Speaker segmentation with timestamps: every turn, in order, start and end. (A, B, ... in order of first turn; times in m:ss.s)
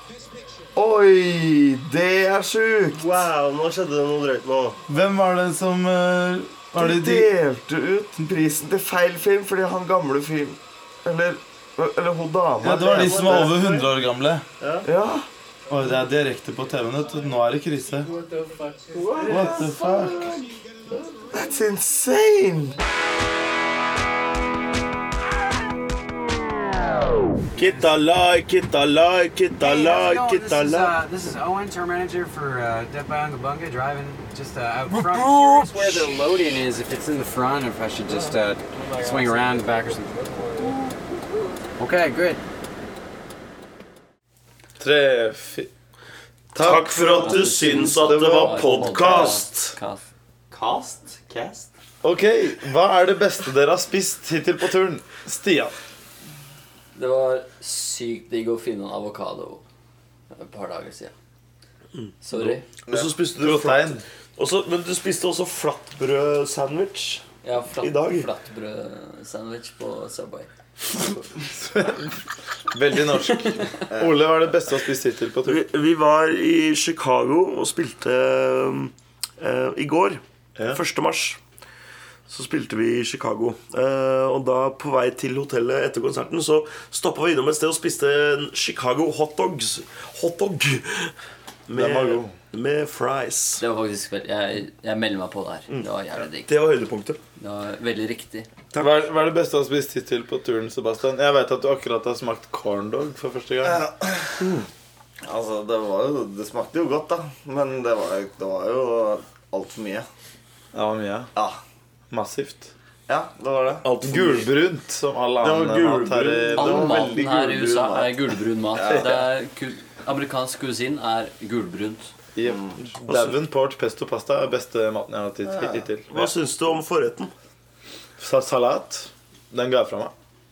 0:00.7-0:03.3 A
0:03.2-0:04.7 B
0:04.9-0:07.3 C
0:06.7-0:13.6 A
0:12.6-0:14.4 C
0:13.0-0:13.5 D
0:14.8-0:15.3 A
0:15.7-0:18.1 C
0:19.0-0:19.4 B
0:19.2-0:20.6 A
0:19.2-0:20.4 C
0:21.2-0:22.8 A
0:27.6-0:31.0 D
0:27.6-0:27.9 E
0:29.6-0:40.1 E
0:34.9-0:36.1 B
0:38.1-0:40.7 B
0:41.8-0:42.4 E
0:44.8-0:45.7 C
0:46.5-0:49.3 C
0:46.6-0:49.7 D
0:47.0-0:50.1 F
0:52.0-0:55.7 C
0:56.9-0:59.6 F
1:00.3-1:01.1 F
1:02.2-1:02.6 F
1:02.9-1:07.2 D
1:03.4-1:04.0 C
1:07.4-1:10.5 F
1:07.8-1:08.3 D
1:11.4-1:12.1 C
1:12.7-1:15.6 C
1:13.9-1:14.2 A
1:15.4-1:21.4 D
1:22.3-1:31.1 D
1:31.7-1:33.6 D
1:31.7-1:32.4 C
1:33.6-1:36.5 F
1:35.7-1:37.2 D
1:37.4-1:38.5 F
1:38.8-1:43.9 C
1:43.6-1:44.5 A
1:45.2-1:50.1 A
1:50.7-1:51.3 C
1:51.4-1:51.6 A
1:52.1-1:52.7 C
1:53.1-1:53.9 A
1:53.8-1:54.5 D
1:54.0-1:57.2 C
1:55.4-1:59.2 A
1:56.5-2:02.1 F
1:58.8-1:59.1 C
2:02.3-2:06.3 C
2:02.4-2:02.8 A
2:05.5-2:05.8 A
2:06.1-2:07.3 D
2:08.2-2:10.1 C